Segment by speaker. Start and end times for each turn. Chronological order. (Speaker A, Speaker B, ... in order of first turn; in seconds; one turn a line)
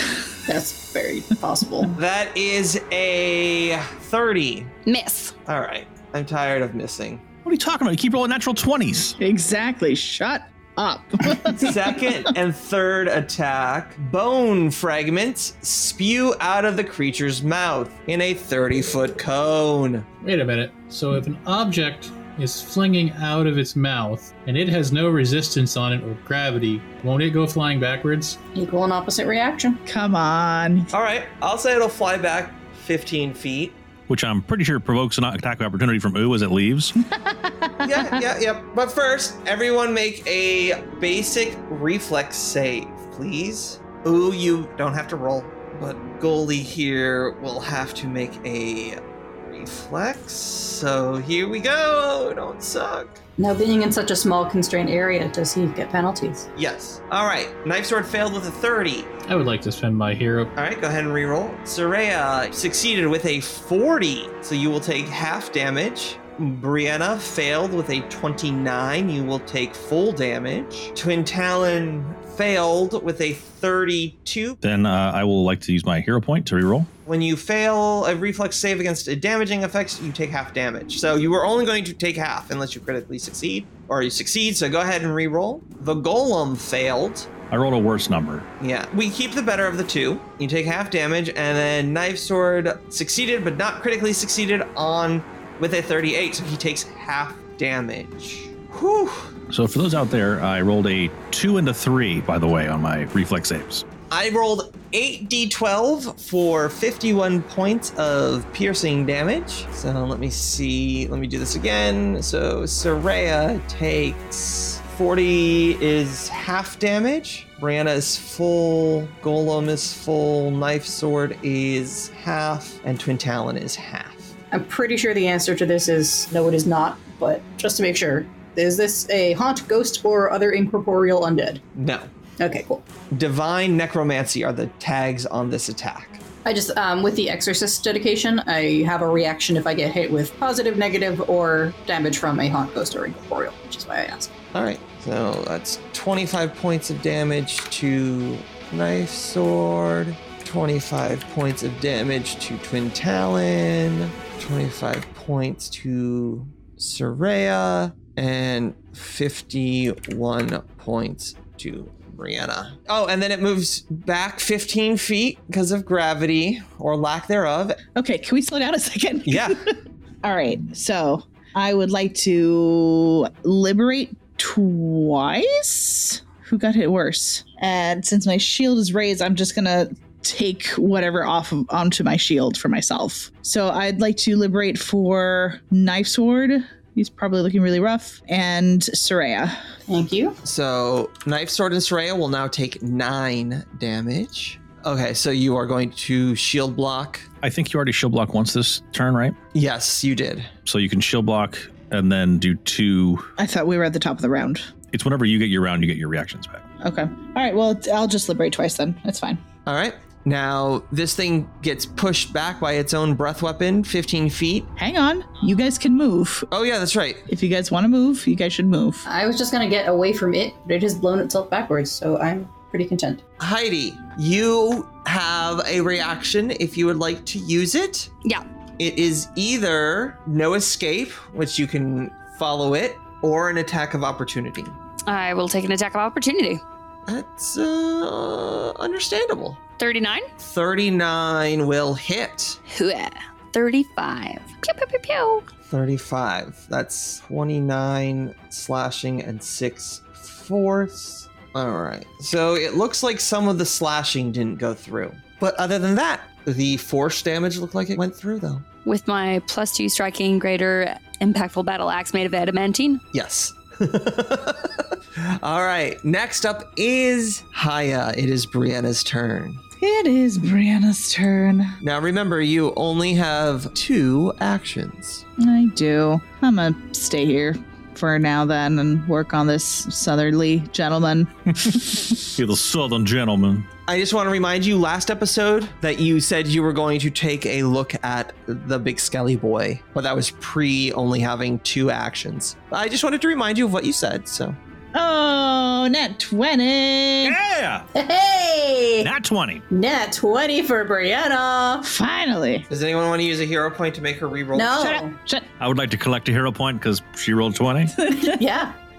Speaker A: 0.5-1.9
Speaker B: 1.9-4.7
Speaker C: 4.8-5.3
Speaker B: 5.5-7.2
Speaker D: 7.4-9.2
Speaker E: 9.2-12.3
Speaker B: 11.6-20.1
Speaker F: 20.2-28.4
Speaker A: 28.5-29.8
Speaker E: 29.9-30.9
Speaker B: 30.9-33.8
Speaker D: 34.1-36.9
Speaker E: 37.2-38.2
Speaker B: 37.8-53.2
Speaker A: 53.4-56.5
Speaker B: 56.5-59.1
Speaker F: 59.3-60.5
Speaker B: 60.5-74.6
Speaker D: 74.6-76.9
Speaker B: 77.0-87.3
Speaker D: 87.5-88.5
Speaker B: 88.6-99.3
Speaker D: 99.5-103.8
Speaker B: 104.1-124.3
Speaker A: 124.5-131.6
Speaker B: 131.7-132.1
Speaker A: 132.4-132.8
Speaker B: 133.1-136.2
Speaker A: 136.4-144.3
Speaker B: 144.5-167.8
Speaker E: 167.9-189.6
Speaker B: 169.2-169.6
Speaker A: 189.9-190.4
Speaker B: 190.4-197.3
Speaker D: 197.4-199.3
Speaker B: 199.5-200.5
Speaker D: 200.6-203.3
Speaker E: 203.4-204.7
Speaker D: 204.9-206.7
Speaker E: 206.8-209.4
Speaker B: 209.7-214.7
Speaker E: 214.8-216.5
Speaker B: 216.5-217.2
Speaker E: 217.3-219.0
Speaker A: 219.0-223.2
Speaker B: 223.4-228.1
Speaker B: 228.8-234.8
Speaker C: 235.1-236.6
Speaker B: 237.1-239.6
Speaker C: 239.8-240.3
Speaker B: 240.4-242.6
Speaker C: 242.7-245.4
Speaker B: 245.7-258.6
Speaker C: 258.8-263.0
Speaker B: 263.1-269.6
Speaker E: 269.8-271.8
Speaker B: 271.8-275.2
Speaker E: 275.4-282.1
Speaker D: 282.2-283.7
Speaker B: 283.9-294.6
Speaker E: 294.9-297.4
Speaker D: 297.2-297.9
Speaker A: 297.9-299.1
Speaker D: 299.0-299.6
Speaker A: 299.7-301.9
Speaker E: 301.9-302.7
Speaker B: 302.7-305.0
Speaker A: 304.5-305.1
Speaker E: 304.8-305.4
Speaker D: 305.6-307.9
Speaker E: 308.0-308.4
Speaker A: 308.1-308.7